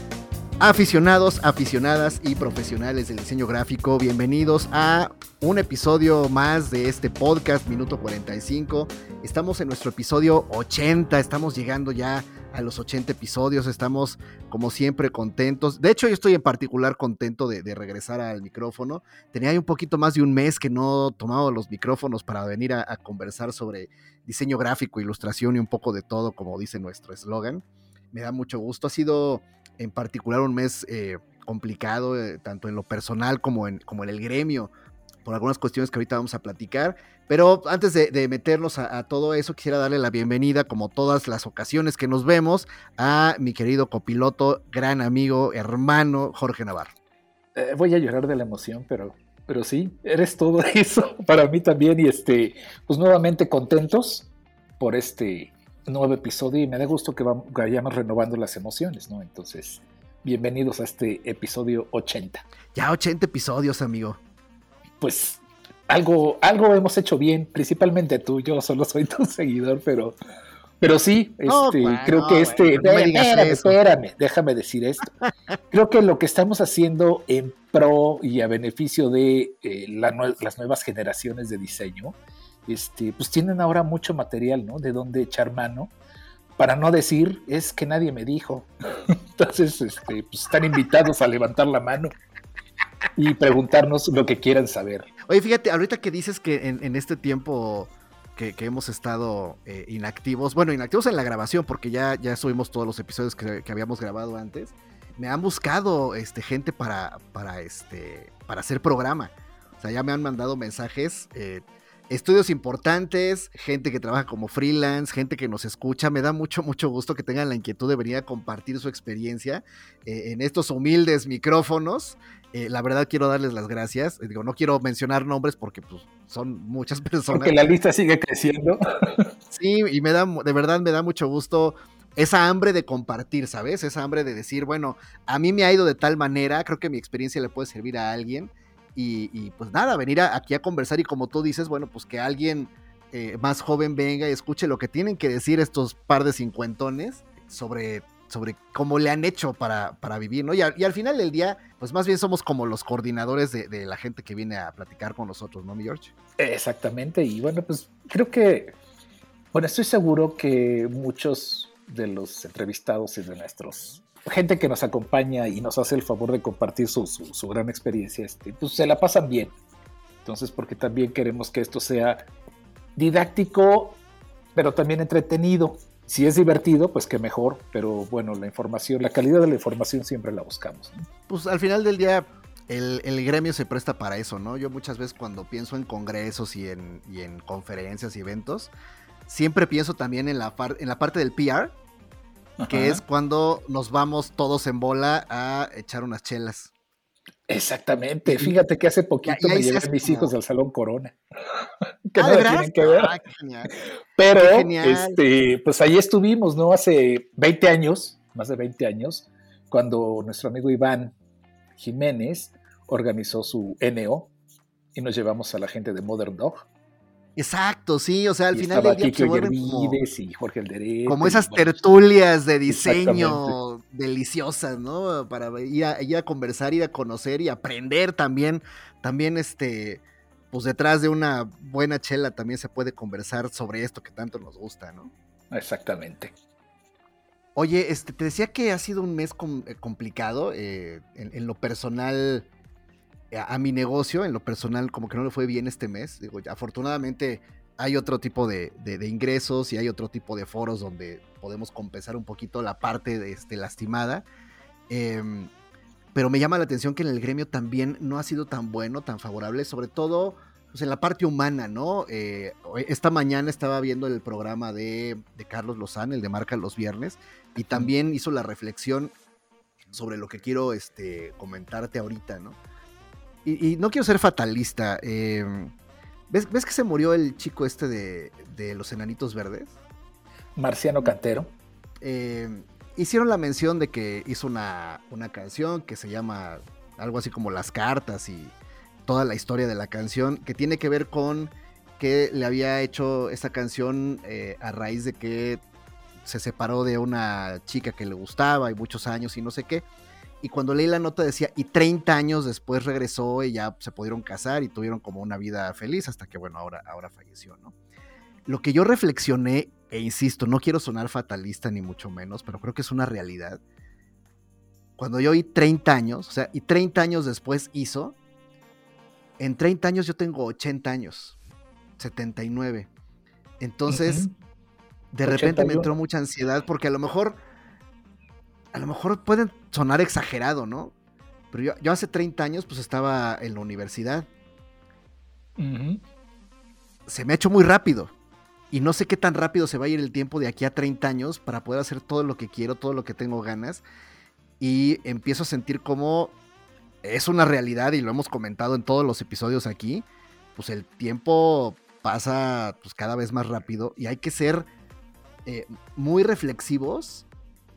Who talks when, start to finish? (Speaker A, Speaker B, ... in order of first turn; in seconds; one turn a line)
Speaker A: 0.6-34.7
Speaker A: 35.2-46.9
Speaker B: 47.5-54.3
Speaker B: 54.8-62.4
Speaker A: 62.7-64.2
Speaker B: 65.0-70.1
Speaker B: 70.8-75.1
Speaker A: 71.5-73.8
Speaker B: 75.7-82.2
Speaker B: 82.7-85.9
Speaker B: 86.6-92.1
Speaker B: 93.2-95.1
Speaker A: 95.3-127.5
Speaker B: 127.3-129.3
Speaker A: 129.5-156.1
Speaker B: 156.4-158.7
Speaker B: 159.5-169.5
Speaker B: 170.2-172.2
Speaker B: 172.9-174.0
Speaker B: 174.6-181.1
Speaker A: 181.3-188.7
Speaker A: 189.3-191.7
Speaker B: 192.6-193.0
Speaker A: 192.7-196.7
Speaker B: 197.5-201.2
Speaker A: 198.2-198.6
Speaker A: 199.2-200.3
Speaker B: 202.1-203.1
Speaker A: 202.2-203.7
Speaker B: 204.2-211.1
Speaker A: 204.3-205.2
Speaker B: 211.8-214.3
Speaker B: 214.9-216.7
Speaker A: 217.4-220.0
Speaker B: 218.5-221.8
Speaker A: 221.1-235.1
Speaker B: 222.7-223.6
Speaker B: 235.5-236.3
Speaker A: 237.6-242.5
Speaker A: 243.3-254.2
Speaker A: 254.9-255.5
Speaker A: 256.1-269.1
Speaker A: 269.9-272.6
Speaker A: 273.4-275.7
Speaker A: 276.3-279.7
Speaker B: 280.6-281.5
Speaker A: 282.0-288.5
Speaker A: 289.1-295.6
Speaker A: 296.2-299.8
Speaker A: 300.4-307.7
Speaker A: 308.5-313.6
Speaker A: 315.0-318.1
Speaker A: 319.4-321.4
Speaker A: 322.0-322.9
Speaker A: 323.6-324.2
Speaker B: 323.9-324.3
Speaker A: 325.1-327.4
Speaker B: 325.2-325.9
Speaker A: 328.7-330.9
Speaker A: 331.5-334.3
Speaker B: 335.6-336.0
Speaker A: 337.1-338.1
Speaker A: 338.7-343.8
Speaker A: 344.6-346.3
Speaker A: 347.0-354.7
Speaker A: 355.4-357.2